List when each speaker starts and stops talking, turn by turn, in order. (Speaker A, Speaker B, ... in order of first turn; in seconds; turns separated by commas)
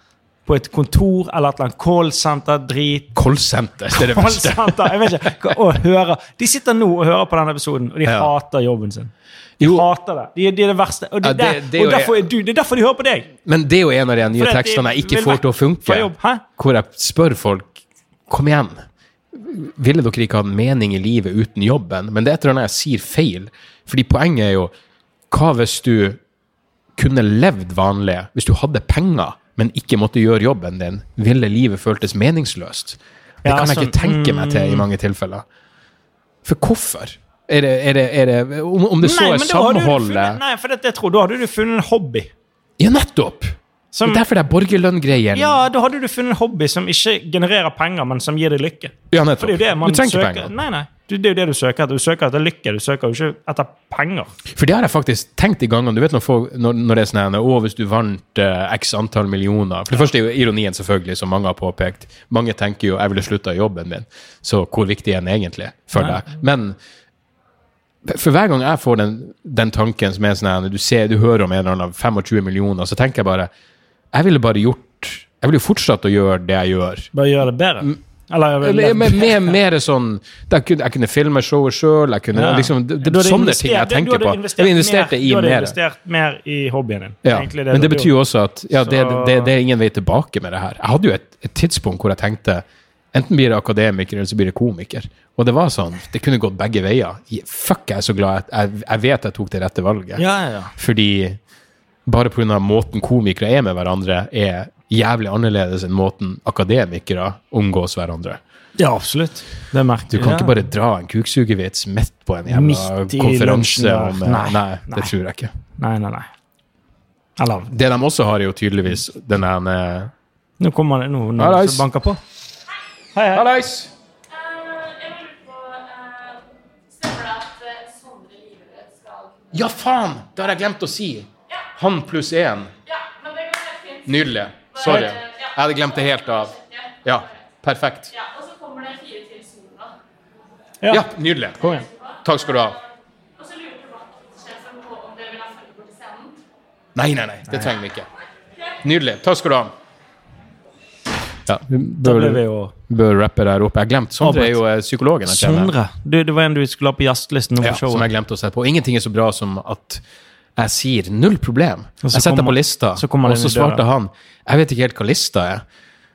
Speaker A: 0.5-3.1, Speaker B: 3.1-5.3, Speaker A: 3.9-13.3, Speaker B: 8.0-8.3, Speaker B: 9.6-9.9, Speaker B: 11.2-12.3, Speaker B: 13.4-18.8, Speaker A: 14.4-16.4, Speaker B: 19.3-24.7, Speaker B: 25.3-26.2, Speaker B: 27.0-35.5, Speaker A: 33.5-34.9, Speaker B: 36.4-40.4, Speaker A: 39.0-42.3, Speaker B: 42.8-45.6, Speaker A: 43.9-44.2, Speaker A: 45.3-54.3, Speaker B: 49.1-50.5, Speaker B: 54.5-66.8, Speaker B: 68.0-73.5, Speaker B: 74.1-77.1, Speaker A: 77.1-79.5, Speaker B: 78.6-85.8, Speaker A: 82.3-88.1, Speaker B: 87.2-100.2, Speaker A: 88.8-89.5, Speaker A: 100.2-100.7, Speaker B: 100.8-101.4, Speaker B: 102.1-108.4, Speaker A: 108.8-110.5, Speaker B: 110.1-115.5, Speaker A: 112.5-115.1, Speaker A: 115.8-116.3, Speaker A: 117.4-117.7, Speaker B: 117.7-120.1, Speaker A: 120.6-122.2, Speaker B: 121.4-121.8, Speaker A: 123.2-123.5, Speaker B: 123.3-123.9, Speaker C: 124.3-129.6, Speaker B: 129.5-132.7, Speaker C: 132.9-137.3, Speaker B: 134.1-138.1, Speaker A: 134.9-135.1, Speaker C: 138.1-139.9, Speaker A: 140.8-141.1, Speaker B: 140.9-142.8, Speaker C: 141.6-142.8, Speaker C: 143.4-146.4, Speaker B: 146.9-148.1, Speaker B: 148.8-149.7, Speaker B: 151.5-155.7, Speaker A: 152.0-152.7, Speaker A: 154.2-154.6, Speaker A: 155.3-158.1, Speaker B: 157.6-160.0, Speaker B: 160.6-165.6, Speaker A: 162.0-163.9